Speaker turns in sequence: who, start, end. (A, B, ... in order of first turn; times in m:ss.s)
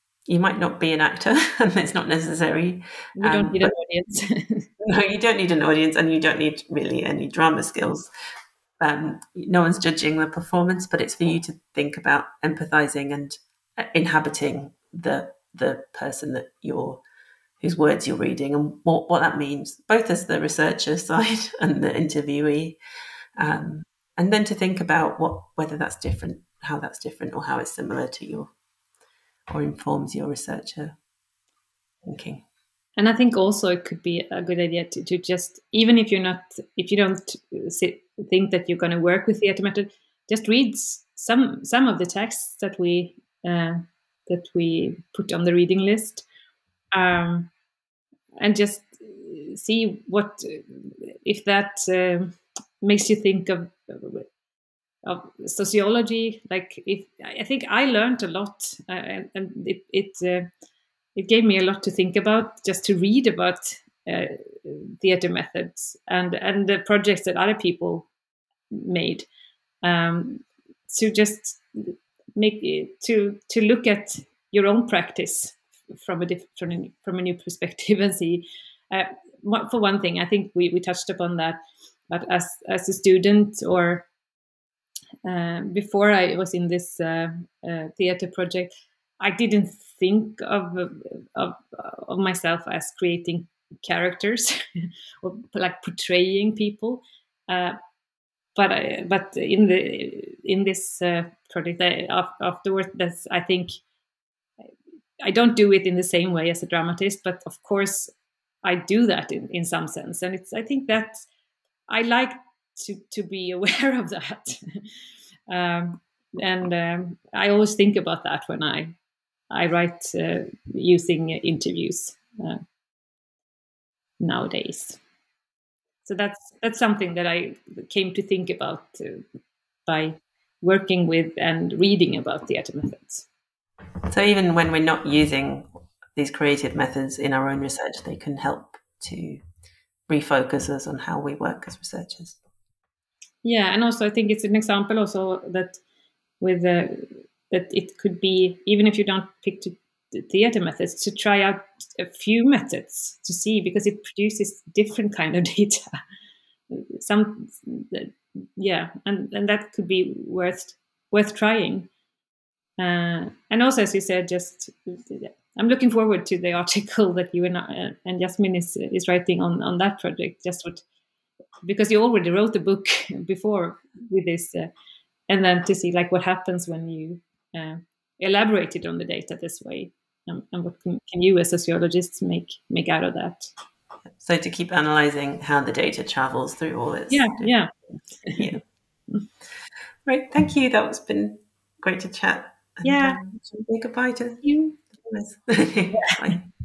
0:00.3-0:03.7 A
0:03.2-0:04.7 B
0:04.8-0:08.1 A
0:08.8-0:17.0 A
0:17.6-0:22.8 A
0:23.4-0:28.5 A
0:29.5-0:31.0 A
0:32.0-0:32.4 A
0:33.0-0:46.2 B
0:46.9-0:47.5 B
0:48.4-0:54.3 B
0:55.0-1:00.5 B
1:01.2-1:08.1 B
1:08.7-1:09.3 B
1:09.8-1:24.1 B
1:25.2-1:37.8 B
1:38.6-1:43.8 B
1:45.2-1:48.1 B
1:48.6-1:51.3 B
1:51.9-1:55.0 B
1:55.5-1:59.0 B
1:59.5-2:02.6 B
2:04.2-2:05.0 B
2:06.0-2:09.2 B
2:09.9-2:13.3 B
2:14.1-2:19.4 A
2:20.1-2:22.4 A
2:23.4-2:25.8 B
2:26.4-2:35.8 B
2:36.7-2:41.9 B
2:42.8-2:50.8 B
2:51.6-2:54.7 B
2:55.3-3:03.5 B
3:04.1-3:07.6 A
3:07.1-3:07.7 B
3:08.3-3:08.6 A
3:10.1-3:16.5 A
3:12.8-3:13.2 B
3:14.4-3:14.8 B